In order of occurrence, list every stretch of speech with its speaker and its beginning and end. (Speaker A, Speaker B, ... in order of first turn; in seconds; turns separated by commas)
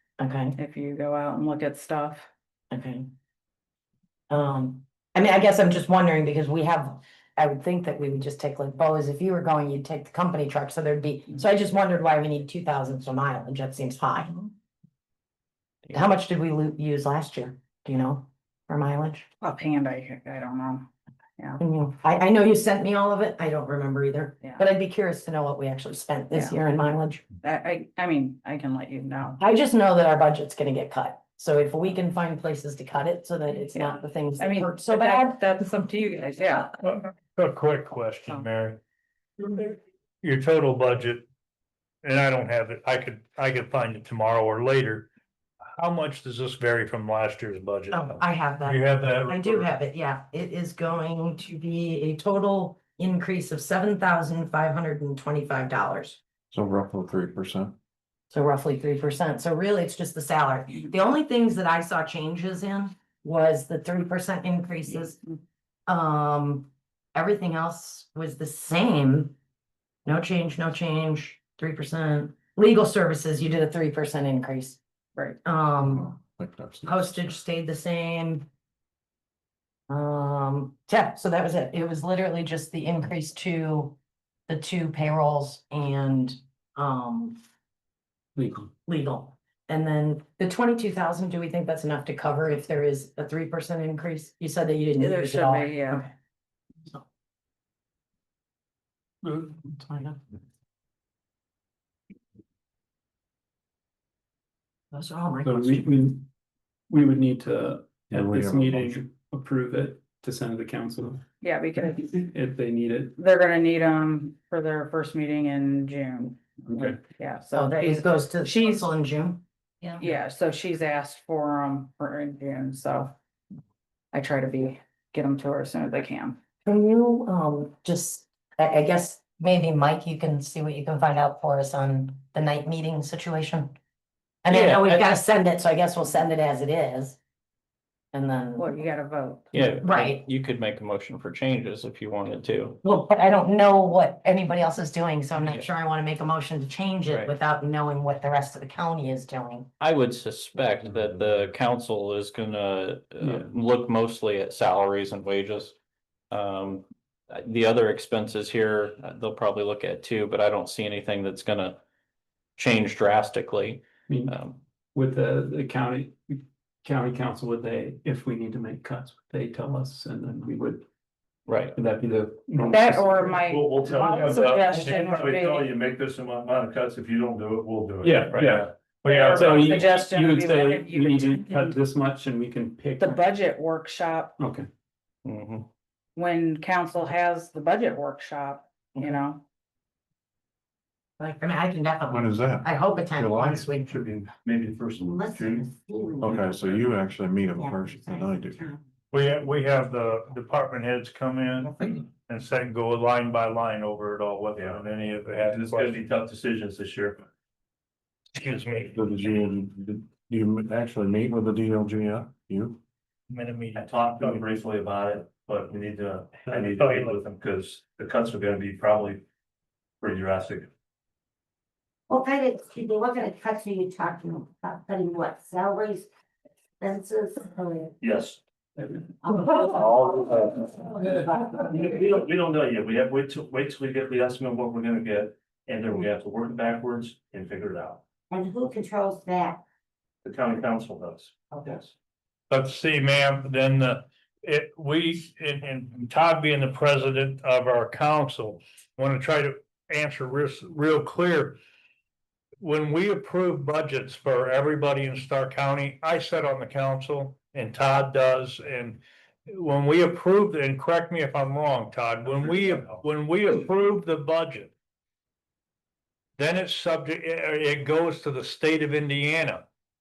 Speaker A: 0.2-0.6, Speaker B: 0.6-2.3, Speaker A: 2.7-3.1, Speaker A: 4.3-14.5, Speaker A: 15.9-19.3, Speaker B: 19.4-21.6, Speaker A: 21.6-27.2, Speaker B: 26.3-26.6, Speaker B: 27.4-29.4, Speaker A: 29.4-35.4, Speaker B: 33.7-36.7, Speaker C: 36.8-38.8, Speaker C: 39.5-41.3, Speaker C: 42.0-45.1, Speaker C: 45.8-49.7, Speaker A: 47.9-56.2, Speaker D: 56.5-57.7, Speaker A: 58.3-65.2, Speaker A: 65.9-69.3, Speaker A: 70.0-74.8, Speaker A: 75.4-76.1, Speaker D: 75.9-77.3, Speaker A: 76.8-78.5, Speaker A: 79.9-84.0, Speaker A: 84.5-87.4, Speaker E: 88.3-88.7, Speaker A: 88.8-96.1, Speaker B: 95.0-96.1, Speaker A: 99.3-100.2, Speaker A: 104.9-105.9, Speaker E: 105.4-106.3, Speaker E: 106.9-111.2, Speaker D: 108.1-109.0, Speaker B: 111.4-112.3, Speaker E: 112.1-113.1, Speaker B: 113.2-118.9, Speaker E: 116.7-117.0, Speaker A: 117.5-119.4, Speaker B: 120.0-123.1, Speaker B: 124.1-126.4, Speaker A: 126.6-133.7, Speaker A: 134.4-137.2, Speaker F: 134.5-135.1, Speaker A: 138.1-138.7, Speaker B: 138.6-139.5, Speaker F: 139.5-142.8, Speaker A: 139.8-140.2, Speaker A: 142.8-149.7, Speaker F: 145.4-145.7, Speaker F: 147.1-147.3, Speaker F: 149.8-155.8, Speaker D: 151.1-151.4, Speaker E: 153.2-153.5, Speaker F: 156.3-161.8, Speaker F: 162.6-164.6, Speaker E: 164.1-164.4, Speaker E: 164.9-170.8, Speaker F: 171.5-171.8, Speaker E: 171.7-173.4, Speaker B: 172.7-175.7, Speaker G: 173.5-179.4, Speaker E: 174.1-174.7, Speaker E: 178.0-183.2, Speaker B: 179.0-181.7, Speaker B: 183.0-184.4, Speaker E: 184.4-184.7, Speaker F: 185.2-185.7, Speaker B: 186.2-189.4, Speaker A: 191.2-193.9, Speaker D: 192.1-193.6, Speaker G: 193.9-195.6, Speaker H: 194.9-196.9, Speaker D: 196.2-198.7, Speaker H: 197.5-198.8, Speaker C: 199.1-206.0, Speaker G: 204.6-204.8, Speaker G: 205.5-207.2, Speaker C: 208.3-209.0, Speaker D: 208.8-212.8, Speaker C: 213.3-214.4, Speaker G: 213.7-219.2, Speaker C: 216.4-217.1, Speaker G: 220.0-220.7, Speaker H: 222.1-226.1, Speaker H: 226.8-227.9, Speaker G: 228.0-228.4, Speaker H: 229.2-232.0, Speaker G: 231.9-238.0, Speaker H: 238.3-239.6, Speaker G: 240.2-241.9, Speaker C: 242.5-251.6, Speaker C: 252.6-264.7, Speaker G: 262.3-263.0, Speaker C: 266.4-269.6